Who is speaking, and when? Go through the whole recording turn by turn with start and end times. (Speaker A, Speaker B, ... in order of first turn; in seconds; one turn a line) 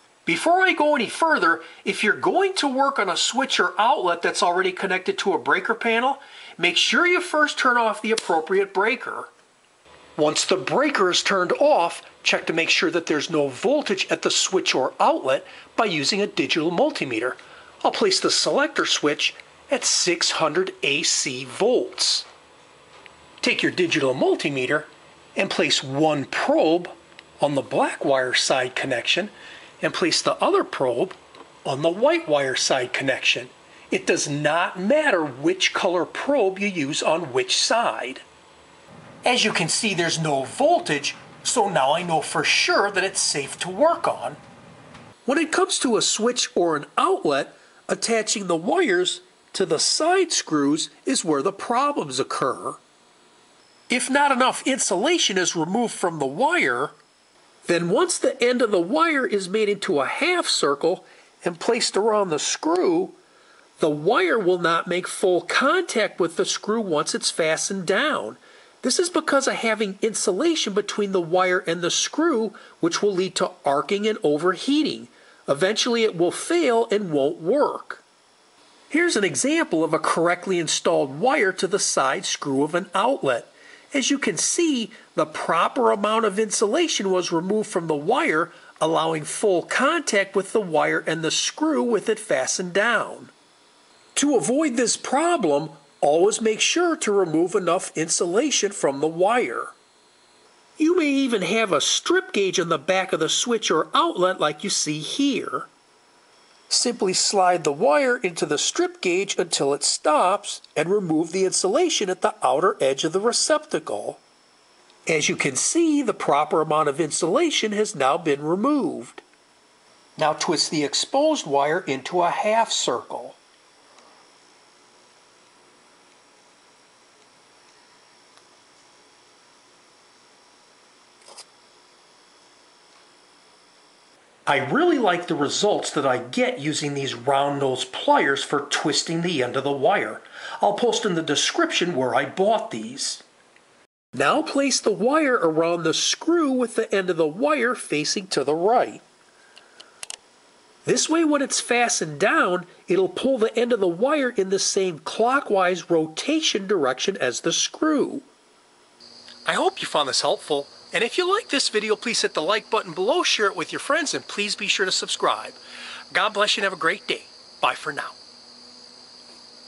Speaker A: 0.3-9.3
Speaker A: 10.2-22.3
Speaker A: 23.4-38.2
Speaker A: 39.2-44.4
Speaker A: 45.3-52.8
Speaker A: 53.9-56.9
Speaker A: 57.6-63.2
Speaker A: 63.8-78.0
Speaker A: 78.9-93.3
Speaker A: 94.2-99.7
Speaker A: 100.8-105.7
Speaker A: 106.7-114.2
Speaker A: 115.1-119.2
Speaker A: 120.2-123.4
Speaker A: 134.5-143.2
Speaker A: 144.1-149.0
Speaker A: 150.8-158.3
Speaker A: 159.4-165.6
Speaker A: 166.1-168.2